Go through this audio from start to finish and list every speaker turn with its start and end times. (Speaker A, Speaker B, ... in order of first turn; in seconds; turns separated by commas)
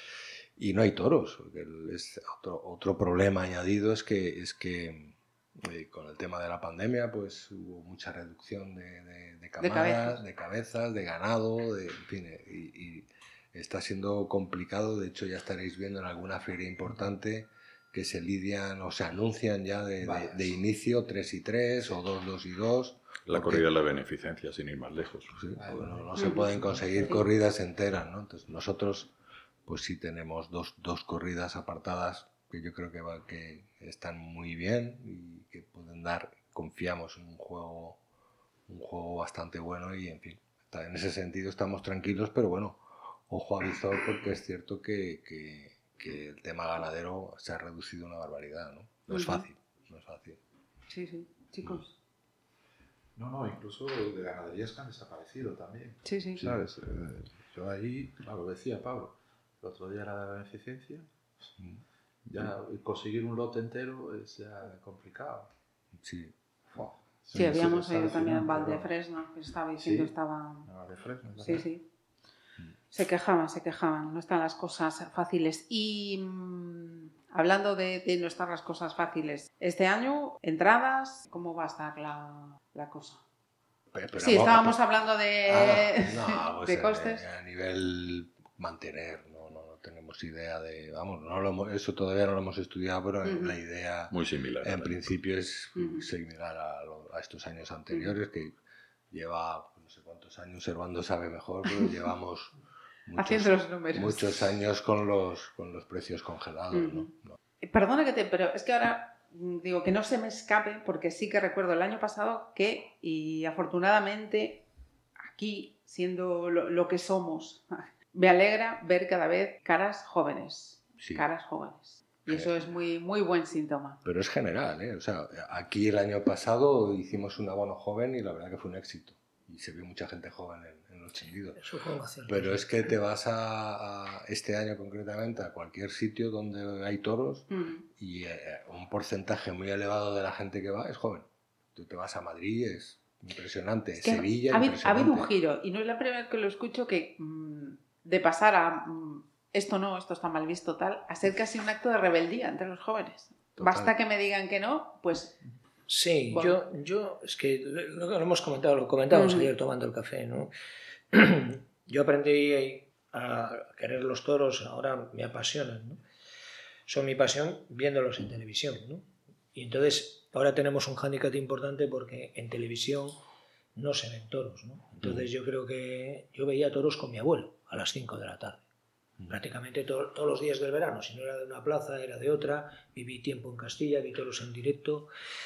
Speaker A: 0.6-23.6, Speaker B: 9.6-10.2, Speaker C: 20.0-20.6, Speaker D: 23.3-25.4, Speaker A: 25.3-29.1, Speaker C: 25.6-26.4, Speaker B: 26.2-26.5, Speaker A: 29.7-38.0, Speaker A: 38.7-50.4, Speaker B: 49.1-49.5, Speaker B: 50.9-52.0, Speaker C: 53.2-61.1, Speaker B: 56.0-56.4, Speaker C: 62.3-65.5, Speaker A: 66.0-66.3, Speaker C: 66.7-68.9, Speaker B: 67.3-70.7, Speaker C: 69.8-70.1, Speaker C: 70.7-71.7, Speaker B: 71.4-71.9, Speaker B: 72.9-83.2, Speaker A: 83.9-84.8, Speaker B: 84.2-87.2, Speaker A: 85.5-98.5, Speaker B: 93.2-93.6, Speaker D: 94.1-95.1, Speaker B: 95.8-96.1, Speaker A: 99.1-102.5, Speaker A: 103.1-107.4, Speaker B: 103.2-104.5, Speaker B: 106.7-107.1, Speaker B: 107.6-114.7, Speaker B: 115.3-124.0, Speaker A: 121.0-121.3, Speaker A: 122.3-122.5, Speaker A: 124.0-131.6, Speaker E: 131.6-132.6, Speaker A: 132.3-145.3, Speaker B: 137.5-137.8, Speaker B: 144.0-155.4, Speaker A: 153.6-153.9, Speaker E: 155.9-160.5, Speaker B: 156.3-156.6, Speaker B: 159.1-159.5, Speaker E: 161.1-166.0, Speaker E: 166.9-173.2, Speaker E: 173.8-178.6, Speaker A: 175.0-175.2, Speaker E: 179.3-185.1